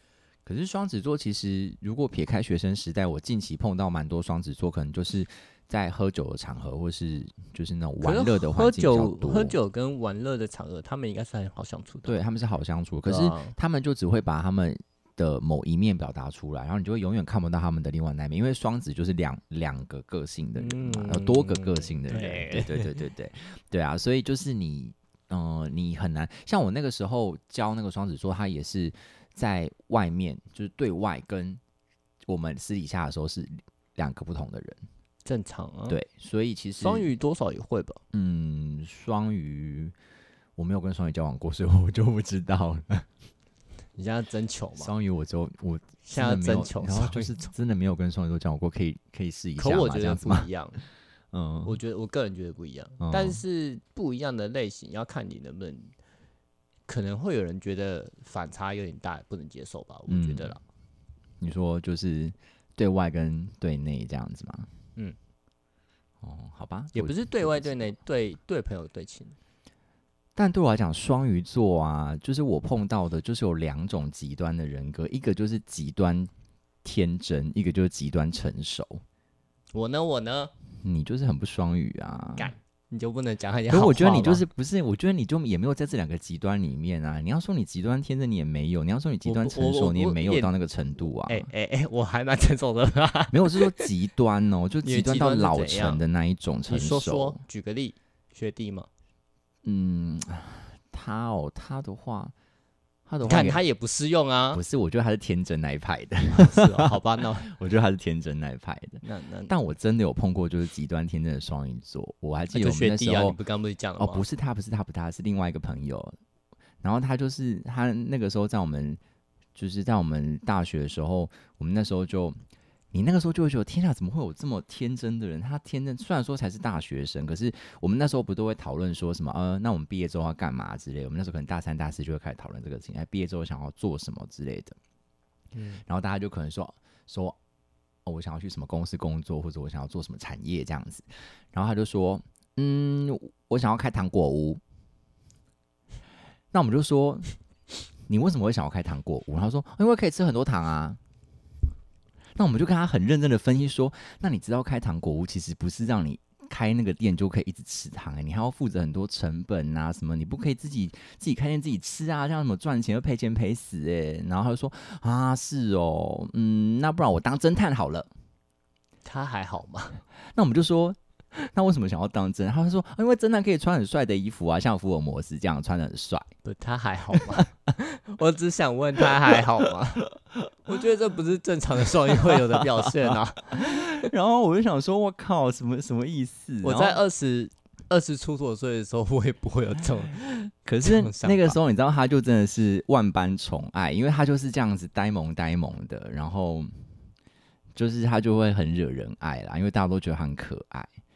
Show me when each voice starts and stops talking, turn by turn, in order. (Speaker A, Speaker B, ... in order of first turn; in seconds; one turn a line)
Speaker A: 0.5-9.5
Speaker B: 8.0-12.1
Speaker A: 12.1-31.6
Speaker B: 13.1-13.6
Speaker B: 20.6-23.0
Speaker A: 32.2-34.8
Speaker B: 35.2-36.0
Speaker A: 35.9-37.1
Speaker B: 36.8-38.0
Speaker A: 38.1-39.9
Speaker A: 40.6-43.1
Speaker B: 44.0-44.9
Speaker A: 44.8-50.5
Speaker B: 46.0-47.4
Speaker B: 49.6-50.8
Speaker A: 51.3-51.7
Speaker B: 51.6-55.9
Speaker A: 53.0-53.4
Speaker B: 56.9-60.6
Speaker A: 60.1-60.5
Speaker A: 61.4-64.7
Speaker A: 66.2-67.9
Speaker B: 66.9-69.3
Speaker A: 70.3-76.3
Speaker A: 76.8-79.0
Speaker B: 79.7-80.5
Speaker A: 80.8-82.5
Speaker B: 82.3-84.4
Speaker A: 83.7-91.5
Speaker B: 89.2-90.5
Speaker B: 91.2-93.9
Speaker A: 93.3-97.4
Speaker B: 94.8-96.0
Speaker B: 96.7-98.9
Speaker A: 99.6-102.3
Speaker A: 103.1-103.6
Speaker B: 103.2-104.6
Speaker A: 104.5-113.4
Speaker B: 106.3-107.5
Speaker B: 109.0-109.5
Speaker B: 112.5-114.2
Speaker A: 114.0-116.2
Speaker A: 116.8-119.0
Speaker A: 119.5-122.4
Speaker A: 122.9-134.8
Speaker B: 135.5-135.8
Speaker A: 135.8-137.4
Speaker A: 138.1-144.6
Speaker A: 146.5-147.3
Speaker A: 148.1-151.0
Speaker A: 152.3-168.1
Speaker B: 169.0-170.0
Speaker A: 170.3-176.3
Speaker B: 176.4-180.1
Speaker A: 177.1-177.4
Speaker B: 180.7-184.1
Speaker A: 182.2-182.6
Speaker A: 183.5-187.0
Speaker B: 186.6-191.6
Speaker A: 190.6-196.8
Speaker A: 197.7-200.9